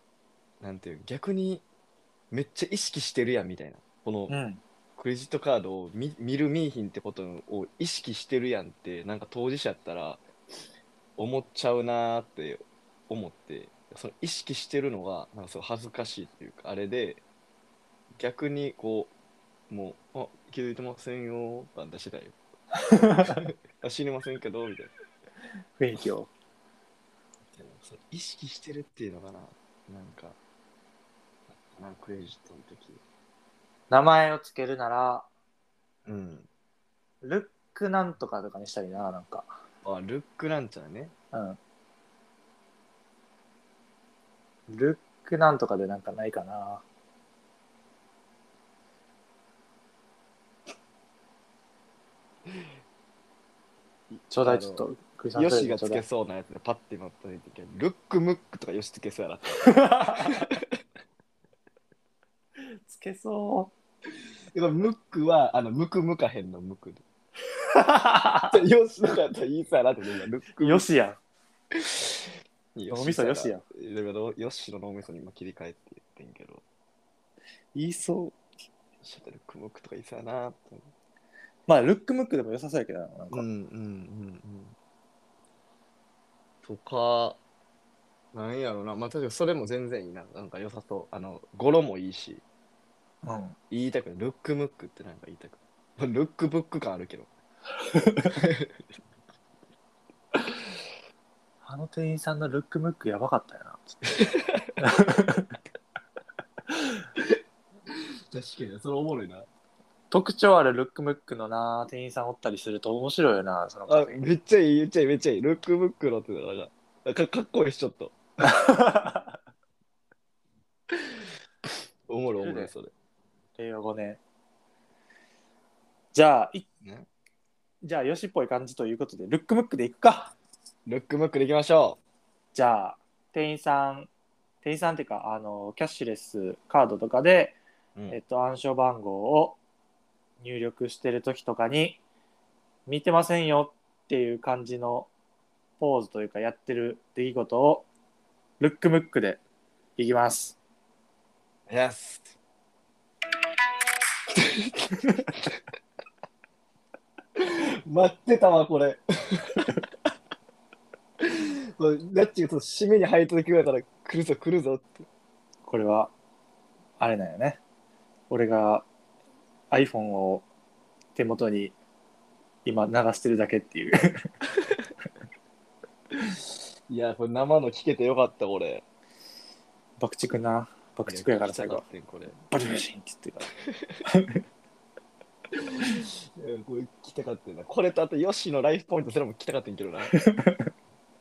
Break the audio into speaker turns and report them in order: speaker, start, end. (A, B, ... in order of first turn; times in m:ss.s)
0:00.6-0:01.6 A
0:02.3-0:04.4 A
0:04.3-0:04.6 B
0:05.0-0:10.2 A
0:11.2-0:17.2 A
0:18.2-0:19.1 A
0:19.7-0:22.4 A
0:22.8-0:23.4 B
0:23.2-0:24.9 A
0:25.8-0:26.3 B
0:27.5-0:30.4 A
0:31.5-0:33.0 A
0:33.9-0:35.3 B
0:36.1-0:36.5 A
0:37.2-0:39.6 B
0:39.8-0:41.1 A
0:41.3-0:41.6 B
0:44.7-0:46.8 B
0:54.1-1:00.6 A
0:54.3-0:56.0 B
0:59.7-1:00.4 B
1:02.8-1:03.7 B
1:04.6-1:07.0 A
1:07.7-1:08.6 B
1:08.5-1:10.9 A
1:10.6-1:11.2 B
1:11.8-1:12.1 A
1:12.8-1:16.6 A
1:12.9-1:13.6 B
1:17.7-1:18.4 B
1:19.0-1:20.9 A
1:21.7-1:23.5 B
1:23.3-1:24.8 A
1:26.6-1:27.4 A
1:28.3-1:32.4 A
1:33.2-1:33.6 B
1:33.7-1:37.3 A
1:37.9-1:38.3 B
1:38.3-1:38.7 A
1:41.6-1:43.8 B
1:44.2-1:44.7 A
1:44.8-1:45.6 B
1:47.9-1:49.5 A
1:50.1-1:54.2 B
1:53.9-1:58.2 A
1:58.4-1:59.2 B
2:02.1-2:02.9 A
2:02.4-2:02.7 B
2:03.6-2:04.2 B
2:06.1-2:06.6 B
2:06.8-2:07.1 A
2:07.8-2:10.4 B
2:10.9-2:12.0 A
2:12.5-2:14.1 B
2:14.6-2:17.6 B
2:18.1-2:19.6 B
2:20.4-2:22.0 B
2:22.9-2:25.1 B
2:25.8-2:27.9 B
2:28.6-2:29.4 B
2:30.0-2:30.6 B
2:31.7-2:32.4 A
2:34.3-2:35.5 A
2:37.4-2:39.9 A
2:41.2-2:45.1 A
2:45.7-2:46.1 B
2:47.0-2:47.6 B
2:48.3-2:48.9 B
2:49.7-2:50.4 B
2:51.2-2:51.8 B
2:52.6-2:54.3 B
2:56.9-2:58.8 A
3:00.0-3:01.8 B
3:01.1-3:02.5 A
3:02.5-3:03.5 B
3:03.7-3:04.0 A
3:04.0-3:04.4 B
3:05.5-3:10.1 A
3:10.1-3:10.7 B